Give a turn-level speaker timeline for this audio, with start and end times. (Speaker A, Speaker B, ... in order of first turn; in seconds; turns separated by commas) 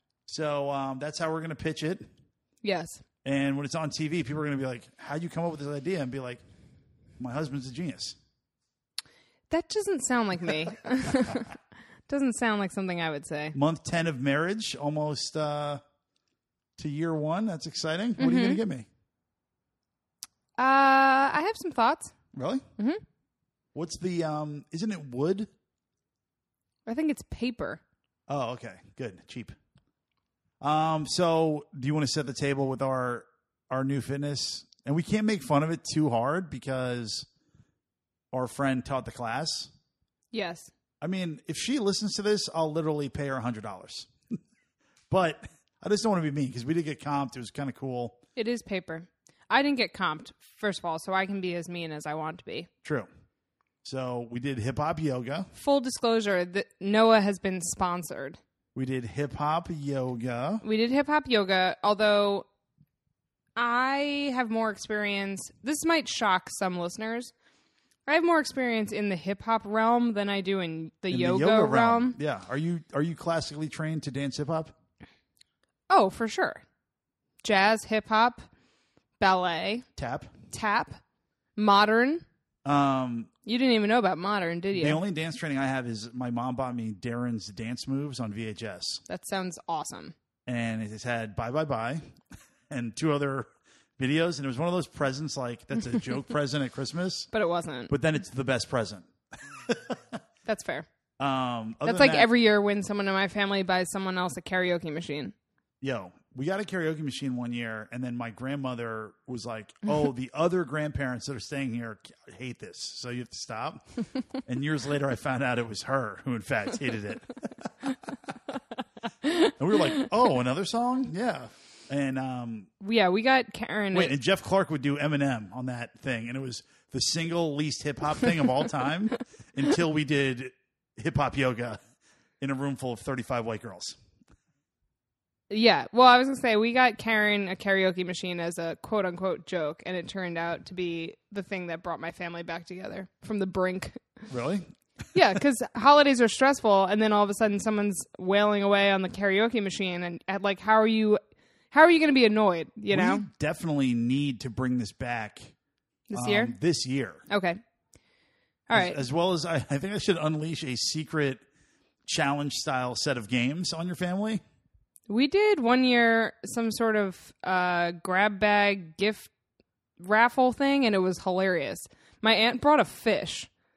Speaker A: 0.3-2.0, Speaker B: 2.6-3.0, Speaker A: 3.2-6.4, Speaker A: 7.2-8.2, Speaker B: 9.5-11.6, Speaker B: 12.1-13.6, Speaker A: 13.5-15.8, Speaker A: 16.8-18.9, Speaker B: 18.2-18.6, Speaker B: 20.6-22.1, Speaker A: 22.3-22.6, Speaker A: 23.7-25.5, Speaker B: 26.9-27.8, Speaker A: 28.3-29.5, Speaker A: 30.6-37.3, Speaker A: 38.3-39.7, Speaker B: 40.3-40.7, Speaker A: 41.0-44.1, Speaker A: 45.1-48.2, Speaker B: 48.4-52.7, Speaker A: 53.8-55.5, Speaker B: 55.5-58.4, Speaker A: 58.7-60.6, Speaker B: 60.6-62.5, Speaker B: 63.5-67.3, Speaker B: 68.1-72.2, Speaker A: 71.1-74.7, Speaker B: 75.9-76.6, Speaker B: 77.4-78.5, Speaker B: 79.2-79.8, Speaker A: 80.0-80.3, Speaker B: 80.5-81.0, Speaker B: 81.5-82.2, Speaker A: 82.6-83.3, Speaker B: 83.4-85.0, Speaker A: 84.8-89.0, Speaker B: 89.1-90.1, Speaker A: 90.5-92.0, Speaker A: 92.7-93.5, Speaker A: 94.0-97.3, Speaker B: 97.3-97.9, Speaker A: 97.9-99.1, Speaker A: 99.6-100.2, Speaker B: 100.5-100.9, Speaker A: 101.2-102.3, Speaker B: 101.8-105.3, Speaker A: 105.8-113.8, Speaker A: 114.4-118.1, Speaker B: 119.2-120.0, Speaker A: 119.5-122.7, Speaker B: 122.8-124.1, Speaker A: 123.9-131.8, Speaker A: 132.4-134.0, Speaker B: 135.5-144.0, Speaker A: 144.3-144.7, Speaker B: 145.1-151.2, Speaker B: 151.7-153.2, Speaker A: 152.9-155.5, Speaker B: 156.1-156.5, Speaker A: 156.1-157.2, Speaker B: 157.3-157.6, Speaker B: 158.7-159.0, Speaker A: 158.7-161.4, Speaker A: 162.1-164.4, Speaker B: 165.1-169.3, Speaker B: 170.0-173.5